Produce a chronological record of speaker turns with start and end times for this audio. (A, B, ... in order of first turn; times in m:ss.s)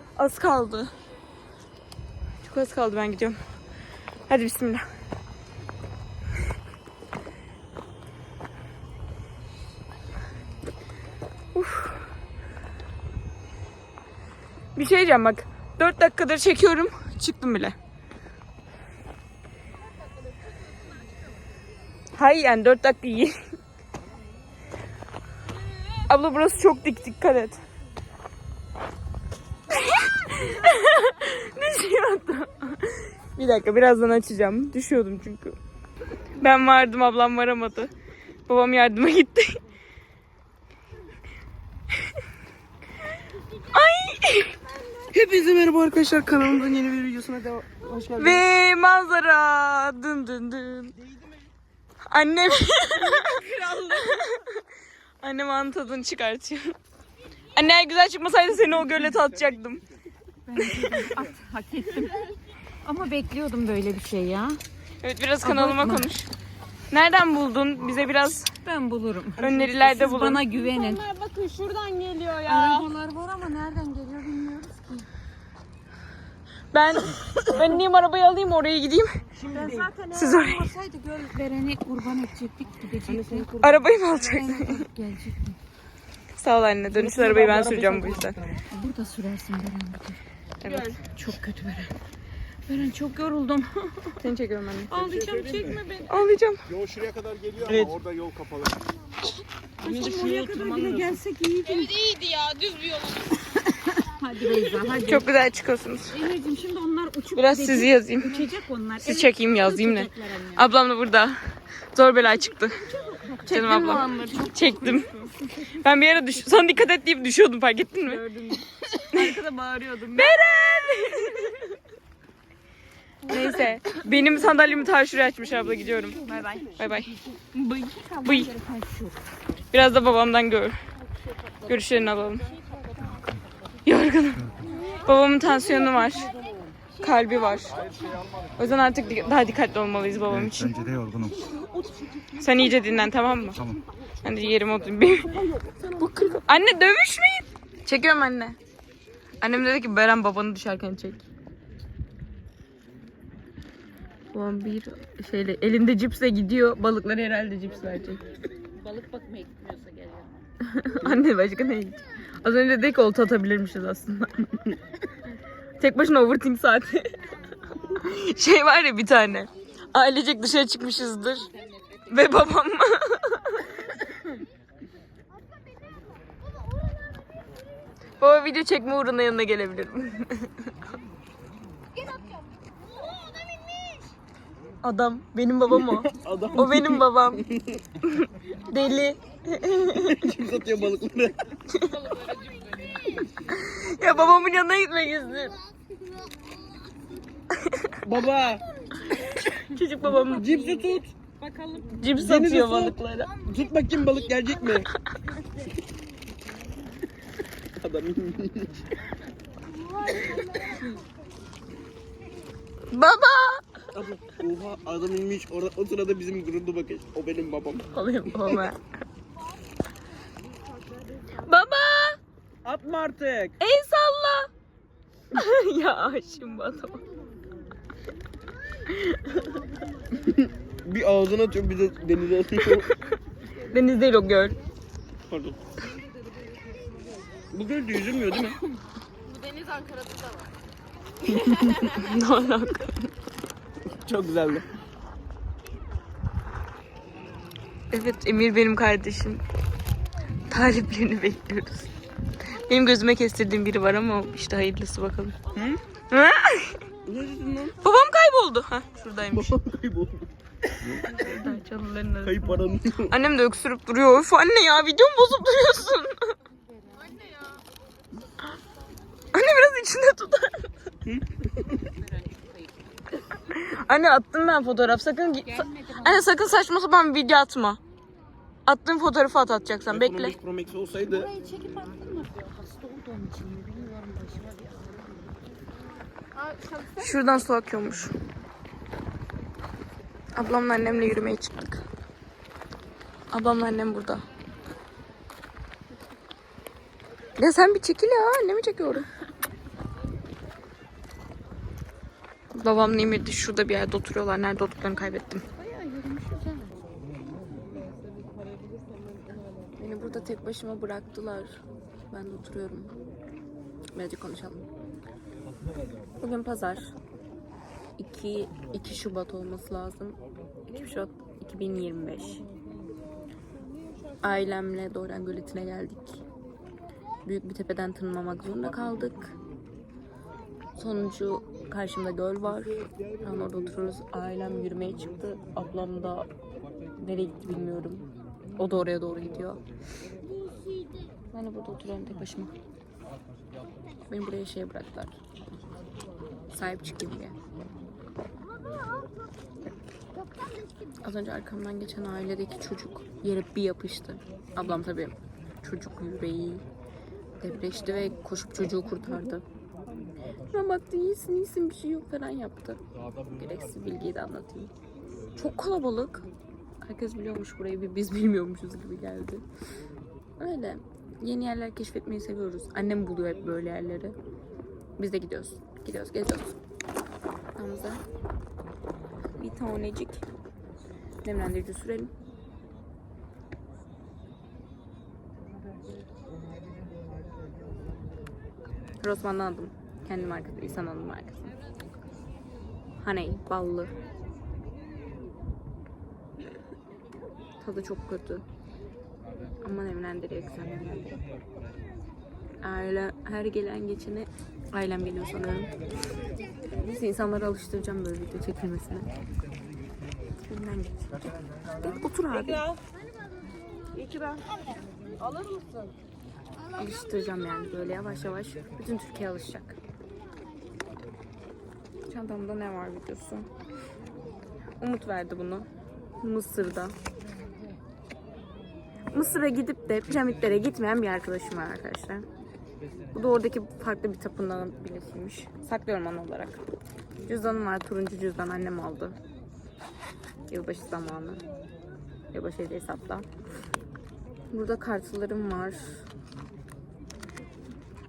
0:00.2-0:00.9 A
0:02.4-0:03.4 A
0:04.3-0:04.8 A
0:11.5-0:12.1 A
0:14.7-0:17.8 A
0:22.2-0:23.4 A
0:26.0-0:27.6 A
0:29.7-0:35.6 A
0:36.4-0:37.9 A
0:38.5-0:39.6 A
0:43.7-0:44.6 A
0:45.1-0:48.4 B
0:48.2-0:51.0 A
0:52.1-0:54.6 A
0:53.0-0:54.0 C
0:55.2-0:56.7 A
0:57.5-0:59.8 A
1:00.5-1:02.2 D
1:00.8-1:01.0 A
1:00.8-1:01.3 C
1:01.9-1:02.2 C
1:02.8-1:04.6 D
1:05.0-1:06.3 A
1:05.4-1:06.1 D
1:06.9-1:08.5 A
1:08.6-1:11.0 D
1:09.4-1:10.5 A
1:10.1-1:12.9 C
1:12.4-1:15.1 D
1:16.7-1:19.2 A
1:19.5-1:19.9 B
1:19.5-1:23.5 D
1:19.5-1:19.8 C
1:20.1-1:20.7 A
1:23.1-1:23.7 B
1:23.6-1:24.9 A
1:24.0-1:25.6 D
1:26.3-1:28.4 A
1:26.9-1:28.6 B
1:28.7-1:30.2 D
1:30.6-1:31.5 A
1:30.6-1:31.0 C
1:31.4-1:31.8 D
1:32.7-1:33.9 D
1:34.2-1:34.9 A
1:34.9-1:36.1 C
1:34.9-1:35.8 E
1:36.1-1:36.6 A
1:36.7-1:38.8 E
1:37.6-1:38.0 B
1:39.8-1:41.8 D
1:39.8-1:41.0 C
1:40.0-1:41.0 E
1:40.1-1:41.0 B
1:41.6-1:43.5 C
1:44.1-1:45.2 D
1:44.4-1:45.0 C
1:45.0-1:46.2 A
1:46.1-1:50.6 D
1:47.3-1:51.4 A
1:51.9-1:52.8 A
1:52.9-1:54.9 D
1:53.3-1:55.2 C
1:53.4-1:55.1 A
1:55.6-1:58.2 A
1:58.2-1:58.6 D
1:59.1-1:59.4 A
1:59.1-2:00.3 D
2:00.1-2:01.7 A
2:03.3-2:06.2 A
2:06.2-2:06.6 C
2:06.2-2:06.6 D
2:06.7-2:07.2 A
2:07.2-2:09.2 D
2:08.2-2:08.5 A
2:09.7-2:10.8 A
2:11.6-2:12.5 A
2:13.8-2:16.3 A
2:17.0-2:17.8 A
2:17.7-2:18.2 C
2:18.6-2:20.8 A
2:21.3-2:22.2 B
2:22.4-2:23.6 A
2:24.2-2:25.4 A
2:25.3-2:26.4 B
2:26.2-2:28.6 A
2:29.4-2:31.2 A
2:34.3-2:38.2 A
2:38.8-2:40.3 D
2:40.6-2:44.8 A
2:45.8-2:47.2 A
2:47.8-2:51.5 A
2:51.5-2:52.0 C
2:52.1-2:53.8 A
2:58.2-3:00.7 A
3:04.8-3:07.4 A
3:05.7-3:07.8 B
3:08.0-3:10.3 A
3:10.0-3:11.5 B
3:11.7-3:12.0 A
3:11.9-3:13.2 C
3:13.4-3:15.6 A
3:17.6-3:17.9 A
3:18.0-3:18.6 B
3:19.4-3:20.5 A
3:20.2-3:21.1 B
3:20.4-3:22.0 C
3:21.9-3:23.3 A
3:22.1-3:24.9 B
3:27.8-3:28.9 B
3:29.8-3:30.8 C
3:32.9-3:33.6 A
3:33.9-3:37.8 B
3:37.9-3:38.8 A
3:41.3-3:42.2 A
3:42.6-3:43.5 B
3:43.6-3:44.5 A
3:45.3-3:47.0 A
3:48.9-3:49.4 A
3:50.3-3:52.9 B
3:53.6-3:54.6 A
3:55.3-3:55.6 B
3:57.5-3:58.6 B
3:59.2-4:00.5 C
4:01.2-4:01.7 B
4:01.3-4:02.9 A
4:03.9-4:04.6 B
4:07.9-4:09.4 A
4:10.5-4:11.9 A
4:12.6-4:15.4 A
4:15.5-4:15.8 B
4:16.1-4:16.8 A
4:17.0-4:17.8 B
4:17.8-4:19.6 A
4:19.3-4:21.2 B
4:21.0-4:26.3 A
4:22.2-4:23.2 B
4:26.9-4:27.6 C
4:29.3-4:30.7 A
4:31.0-4:31.8 B
4:32.1-4:32.6 C
4:33.5-4:37.8 A
4:38.6-4:40.3 A
4:39.9-4:41.3 B
4:41.1-4:45.0 D
4:46.3-4:47.1 C
4:47.0-4:48.1 A
4:50.3-4:51.8 A
4:53.3-4:54.2 A
4:57.4-4:59.0 A
5:02.5-5:05.4 A
5:05.6-5:06.8 C
5:09.8-5:12.9 A
5:13.9-5:14.6 A
5:16.2-5:16.9 A
5:18.0-5:22.4 A
5:24.2-5:26.2 A
5:27.2-5:29.4 A
5:30.8-5:36.3 A
5:37.0-5:39.6 A
5:41.3-5:42.5 A
5:44.1-5:45.1 A
5:46.5-5:47.4 A
5:51.0-5:56.6 A
5:57.4-5:59.4 A
6:00.5-6:04.7 A
6:05.3-6:06.2 A
6:06.8-6:09.4 A
6:10.4-6:14.2 A
6:15.0-6:16.6 A
6:17.6-6:18.0 A
6:19.4-6:20.2 A
6:21.2-6:22.1 A
6:29.0-6:31.5 A
6:33.0-6:33.9 A
6:37.6-6:38.4 A
6:39.6-6:41.2 A
6:42.6-6:45.7 A
6:46.7-6:49.1 A
6:50.4-6:51.1 A
6:51.8-6:52.6 A
6:52.3-6:52.8 C
6:53.9-6:54.4 C
6:55.2-6:55.9 C
6:56.8-6:59.8 A
7:02.1-7:03.5 A
7:04.8-7:05.7 A
7:06.2-7:07.0 A
7:09.1-7:12.2 A
7:13.1-7:16.6 A
7:17.2-7:19.2 A
7:20.5-7:21.4 A
7:22.3-7:23.3 A
7:24.5-7:26.0 A